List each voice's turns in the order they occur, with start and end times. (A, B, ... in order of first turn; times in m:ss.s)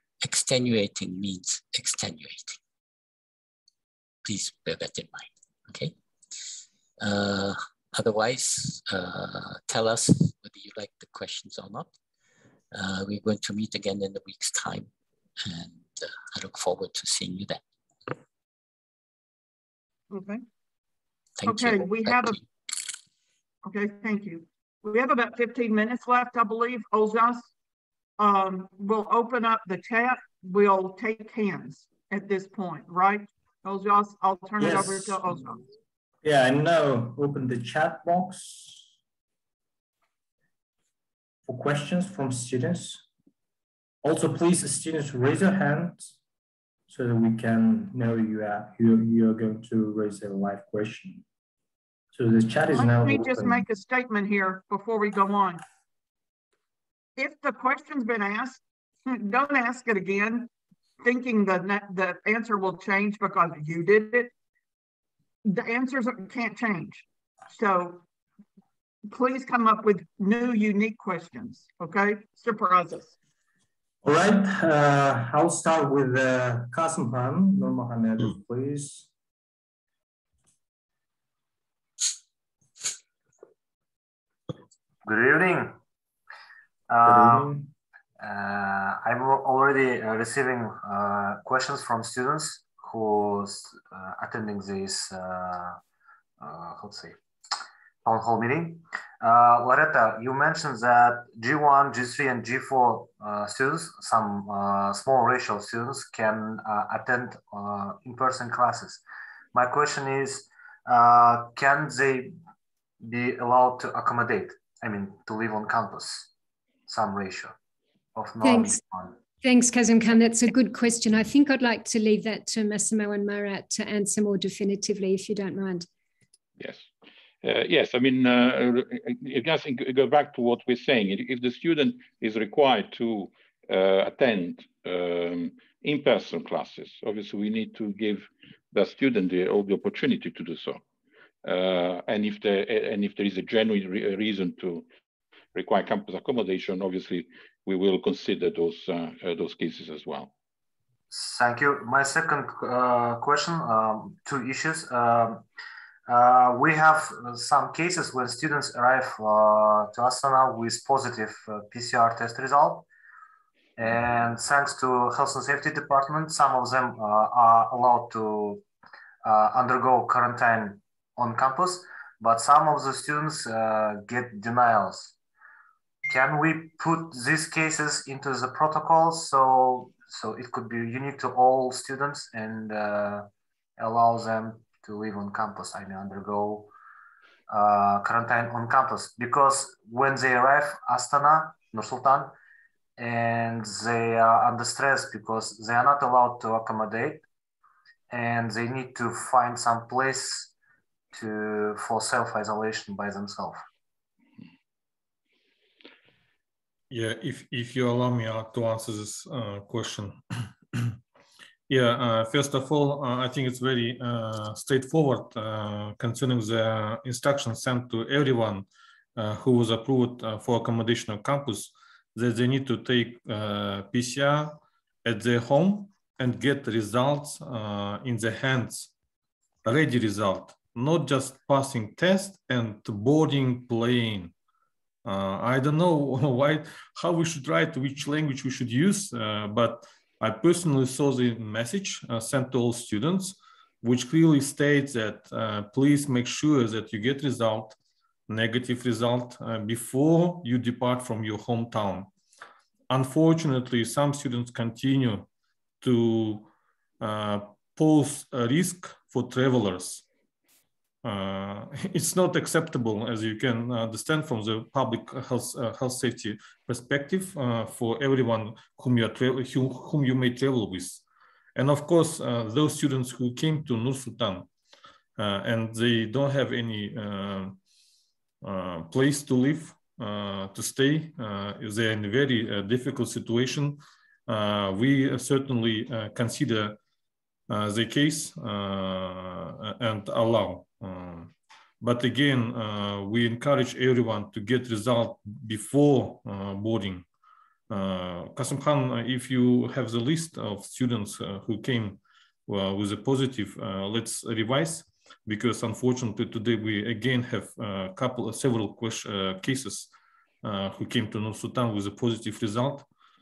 0:00.2-0:02.6 A
0:04.2-0:05.9 A
0:07.0-0:11.9 A
0:12.7-0:14.9 A
0:15.4-0:17.6 A
0:20.1-0:20.4 B
0:21.4-0:22.4 A
0:21.4-0:22.4 B
0:23.6-0:27.5 B
0:28.2-0:35.6 B
0:34.6-0:35.4 C
0:36.2-0:38.9 C
0:41.4-0:43.0 C
0:44.0-0:46.1 C
0:46.9-0:51.2 C
0:52.1-0:53.7 C
0:52.7-0:55.6 B
0:57.2-1:00.5 B
1:01.0-1:04.3 B
1:05.4-1:08.0 B
1:09.1-1:13.2 B
1:14.0-1:19.1 C
1:25.0-1:25.8 D
1:26.9-1:27.6 D
1:27.2-1:27.5 C
1:28.2-1:35.8 D
1:36.4-1:37.2 D
1:38.0-1:49.0 D
1:49.5-1:52.3 D
1:53.0-1:56.3 D
1:56.9-1:57.5 D
1:58.2-1:59.2 D
1:58.4-1:58.8 E
1:59.4-2:05.9 E
2:06.6-2:06.9 F
2:07.4-2:20.8 F
2:21.4-2:24.9 F
2:25.5-2:30.3 F
2:31.1-2:35.4 D
2:36.1-2:42.9 D
2:43.8-2:48.6 D
2:49.2-2:55.1 D
2:56.1-3:06.7 D
3:07.5-3:12.3 D
3:13.0-3:17.2 D
3:18.1-3:20.5 D
3:21.1-3:23.6 D
3:26.9-3:30.2 G
3:31.7-3:48.9 G
3:49.6-3:54.3 G
3:55.0-4:07.8 G
4:08.3-4:12.1 G
4:12.9-4:15.3 G
4:15.8-4:16.5 G
4:17.0-4:20.0 G
4:21.0-4:31.0 G
4:31.6-4:34.5 G
4:35.2-4:37.6 G
4:38.4-4:46.8 G
4:47.5-4:57.0 G
4:57.7-5:09.9 G
5:10.4-5:12.9 G